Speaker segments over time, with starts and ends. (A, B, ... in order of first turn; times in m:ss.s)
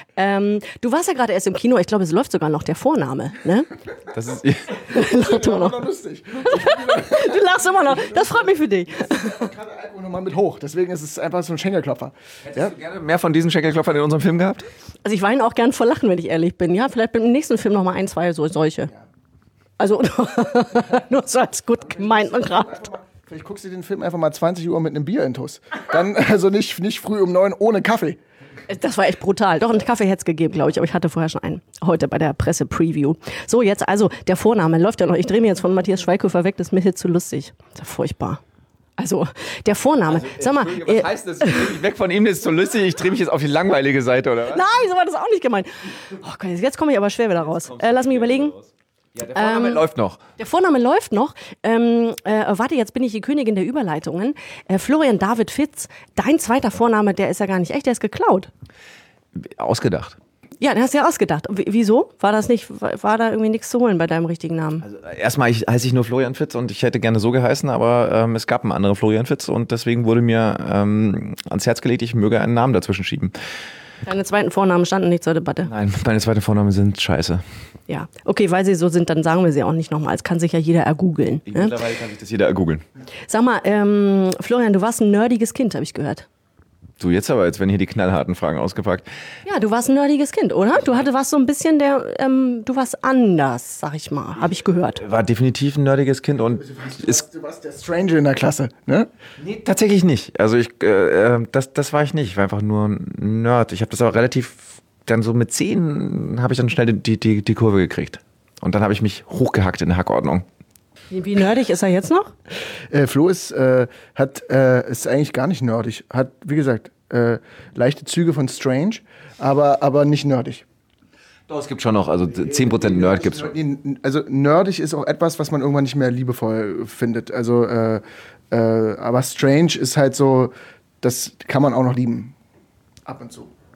0:00.2-0:03.7 A
0:04.1-0:04.8 B
0:04.8-0:05.8 A
0:04.9-0:12.7 C
0:06.5-0:09.4 A
0:12.4-0:14.7 B
0:15.0-0:18.9 A
0:19.8-0:22.8 A
0:21.8-0:28.2 C
0:28.7-0:38.4 A
0:39.0-0:41.8 A
0:40.1-0:44.6 B
0:44.5-0:48.6 A
0:47.4-0:50.2 B
0:49.3-0:58.5 A
0:59.4-1:00.2 B
1:00.6-1:04.8 A
1:04.8-1:13.3 B
1:14.0-1:15.7 A
1:15.6-1:17.4 B
1:17.9-1:21.8 A
1:21.5-1:22.8 B
1:23.3-1:26.3 A
1:27.0-1:29.1 B
1:29.5-1:35.0 A
1:35.0-1:37.2 B
1:36.6-1:39.1 C
1:39.4-1:50.5 B
1:51.1-1:52.3 A
1:52.9-2:00.6 C
2:01.5-2:03.6 B
2:02.3-2:12.3 C
2:13.1-2:13.5 C